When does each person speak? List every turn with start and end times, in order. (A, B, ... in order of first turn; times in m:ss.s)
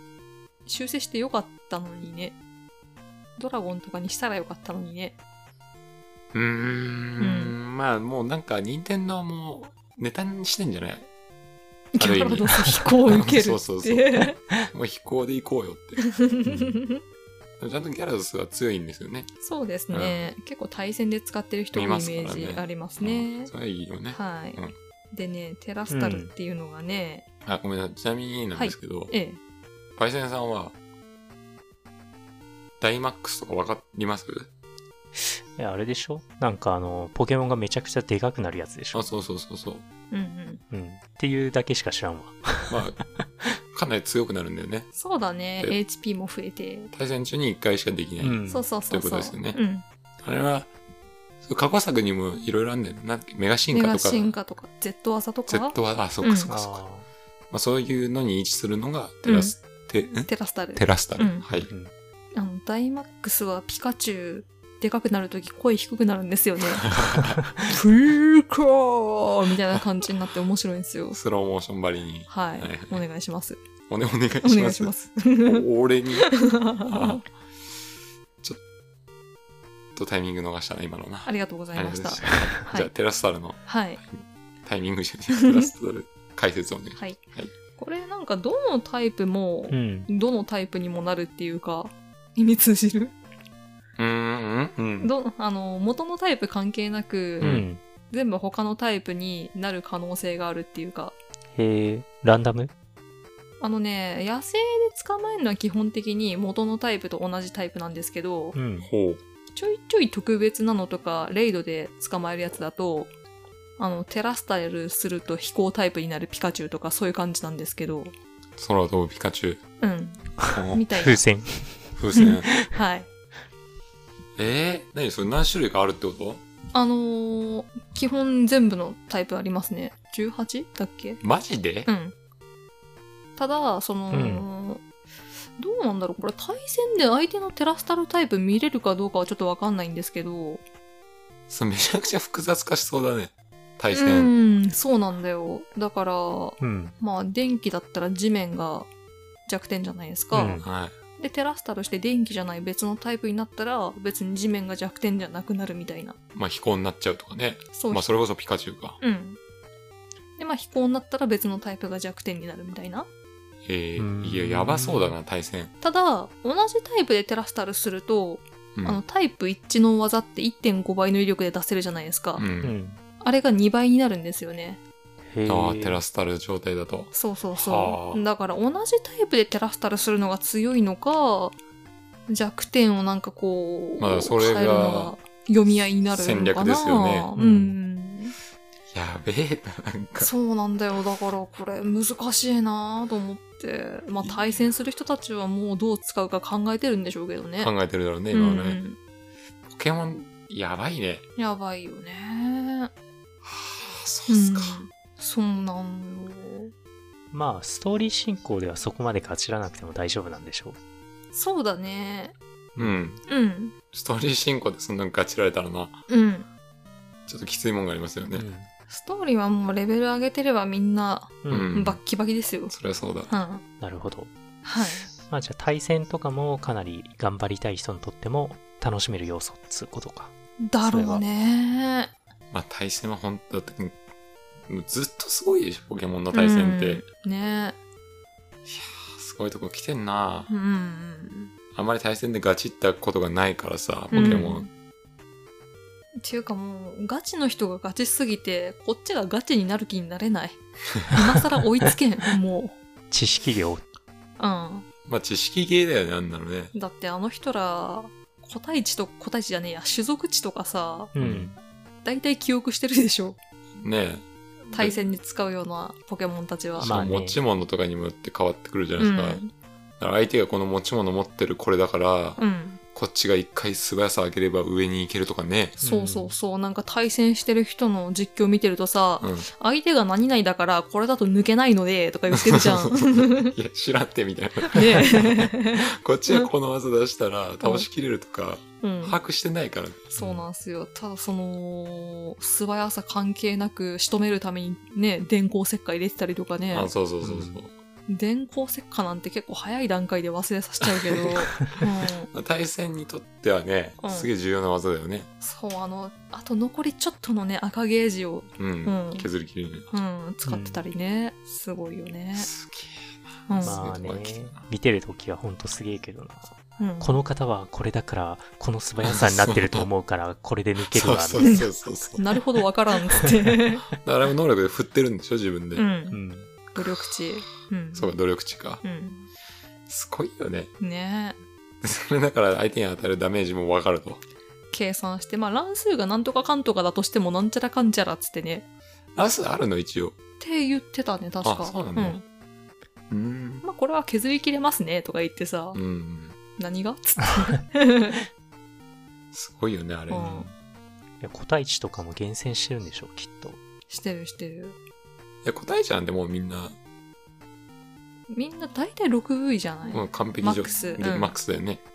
0:00.6-0:02.4 A
0:03.4-0:05.2 A
0:06.3-0:11.1 B
0:07.2-0:07.6 A
0:11.9-0:14.4 A
0:12.0-0:16.1 B
0:16.0-0:17.0 A
0:17.6-0:19.3 B
0:19.4-0:23.5 A
0:19.9-0:20.2 B
0:21.7-0:24.7 B
0:24.1-0:27.2 A
0:25.9-0:26.3 C
0:27.4-0:29.1 B
0:28.5-0:29.4 A
0:30.0-0:30.7 B
0:32.8-0:34.5 B
0:35.1-0:39.1 C
0:38.9-0:39.8 B
0:40.1-0:40.6 A
0:40.7-0:43.2 C
0:42.7-0:43.0 B
0:43.7-0:44.9 B
0:44.9-0:46.9 A
0:46.9-0:49.6 B
0:48.2-0:48.6 C
0:48.5-0:49.8 A
0:50.2-0:50.7 B
0:51.4-0:54.3 B
0:53.7-0:56.5 A
0:55.5-0:56.8 B
0:56.5-0:57.1 C
0:57.5-1:01.7 B
0:59.2-0:59.5 A
1:00.3-1:01.4 A
1:02.3-1:07.0 A
1:06.8-1:07.4 B
1:07.6-1:11.2 A
1:11.1-1:13.0 B
1:12.3-1:13.6 A
1:13.9-1:17.3 B
1:14.4-1:15.6 A
1:16.2-1:17.2 A
1:19.9-1:27.5 B
1:21.2-1:22.9 A
1:22.2-1:22.5 C
1:23.6-1:24.0 A
1:25.3-1:25.7 A
1:27.7-1:33.2 A
1:29.7-1:30.1 C
1:34.0-1:35.1 B
1:35.0-1:41.2 A
1:37.4-1:37.6 B
1:37.4-1:37.8 C
1:41.5-1:42.7 C
1:43.6-1:48.6 A
1:48.5-1:48.9 C
1:48.8-1:49.2 B
1:49.5-1:53.1 A
1:53.8-1:58.1 A
1:58.6-1:59.6 B
1:59.8-2:01.2 A
2:00.5-2:00.8 B
2:01.0-2:02.7 C
2:02.0-2:02.5 B
2:02.1-2:03.1 A
2:04.4-2:06.4 B
2:06.7-2:11.2 A
2:11.2-2:11.9 B
2:11.8-2:12.1 A
2:13.4-2:14.8 A
2:14.1-2:14.4 C
2:15.6-2:20.6 A
2:21.5-2:24.3 B
2:23.9-2:28.9 A
2:26.6-2:26.9 C
2:29.5-2:30.6 A
2:30.3-2:30.6 C
2:30.6-2:31.0 B
2:31.2-2:36.2 A
2:36.3-2:39.0 B
2:37.7-2:38.1 A
2:39.0-2:39.4 A
2:40.4-2:43.1 A
2:43.6-2:45.7 B
2:44.0-2:45.2 C
2:45.8-2:52.4 A
2:48.7-2:49.0 B
2:52.4-2:52.7 B
2:52.6-2:53.0 C
2:53.2-2:54.8 A
2:55.2-2:56.0 C
2:55.4-2:58.2 B
2:57.1-3:01.6 A
3:02.3-3:08.4 A
3:04.0-3:05.1 B
3:06.1-3:07.3 B
3:07.4-3:07.8 C
3:08.9-3:10.3 B
3:10.2-3:17.7 A
3:17.6-3:18.8 B
3:18.3-3:19.0 A
3:19.7-3:21.2 B
3:21.4-3:22.9 A
3:23.4-3:24.8 B
3:24.3-3:26.7 A
3:27.3-3:30.8 C
3:31.3-3:32.3 A
3:32.7-3:33.2 C
3:32.8-3:33.2 B
3:33.3-3:33.7 A
3:33.9-3:36.0 B
3:36.1-3:36.5 A
3:37.3-3:38.4 B
3:38.4-3:38.7 C
3:38.9-3:42.7 A
3:41.4-3:41.7 C
3:41.5-3:42.0 B
3:42.7-3:43.3 B
3:43.3-3:43.6 A
3:43.8-3:50.3 C
3:44.6-3:45.0 A
3:50.6-3:52.1 A
3:50.8-3:51.2 C
3:52.5-3:54.0 B
3:54.7-3:57.0 B
3:56.3-3:57.8 A
3:58.6-4:00.5 B
4:00.5-4:01.5 A
4:01.7-4:04.6 B
4:04.1-4:04.7 A
4:04.2-4:04.5 C
4:06.2-4:12.8 A
4:13.1-4:13.8 C
4:14.4-4:14.8 A
4:15.0-4:16.7 B
4:16.7-4:21.1 A
4:21.1-4:21.5 C
4:21.2-4:21.5 B
4:22.0-4:23.4 A
4:23.8-4:25.0 B
4:24.7-4:27.0 A
4:26.8-4:29.4 B
4:26.8-4:27.4 C
4:29.0-4:29.5 A
4:30.0-4:32.4 B
4:32.4-4:32.8 A
4:32.9-4:35.8 B
4:35.8-4:36.3 C
4:35.8-4:43.5 A
4:39.2-4:39.5 B
4:42.3-4:50.1 B
4:44.7-4:46.5 A
4:47.6-4:47.9 A
4:48.8-4:49.2 A
4:50.1-4:56.9 A
4:50.2-4:50.4 C
4:56.7-4:57.7 B
4:57.2-4:57.6 C
4:58.1-5:02.3 A
5:00.9-5:01.3 B
5:02.3-5:05.3 B
5:04.0-5:04.3 A
5:05.4-5:09.3 A
5:08.6-5:09.9 B
5:09.9-5:12.5 A
5:10.4-5:10.8 C
5:12.3-5:14.6 B
5:13.5-5:13.8 A
5:13.6-5:21.6 C
5:16.8-5:17.2 A
5:19.0-5:19.9 B
5:20.8-5:22.4 B
5:21.4-5:23.8 A
5:23.9-5:25.9 B
5:25.7-5:26.2 A
5:26.1-5:26.5 C
5:26.7-5:28.1 A
5:27.9-5:28.8 B
5:28.8-5:29.3 A
5:29.9-5:30.7 B
5:30.8-5:31.4 A
5:31.8-5:34.2 B
5:34.7-5:38.6 A
5:39.1-5:40.1 B
5:40.4-5:42.2 A
5:41.4-5:42.2 B
5:43.1-5:43.6 B
5:43.6-5:45.8 A
5:45.7-5:46.4 B
5:46.6-5:48.2 A
5:49.3-5:50.5 B
5:50.1-5:50.5 A
5:51.2-5:53.6 C
5:53.9-5:54.8 A
5:55.4-5:56.8 B
5:58.3-6:01.4 A
5:59.9-6:01.8 B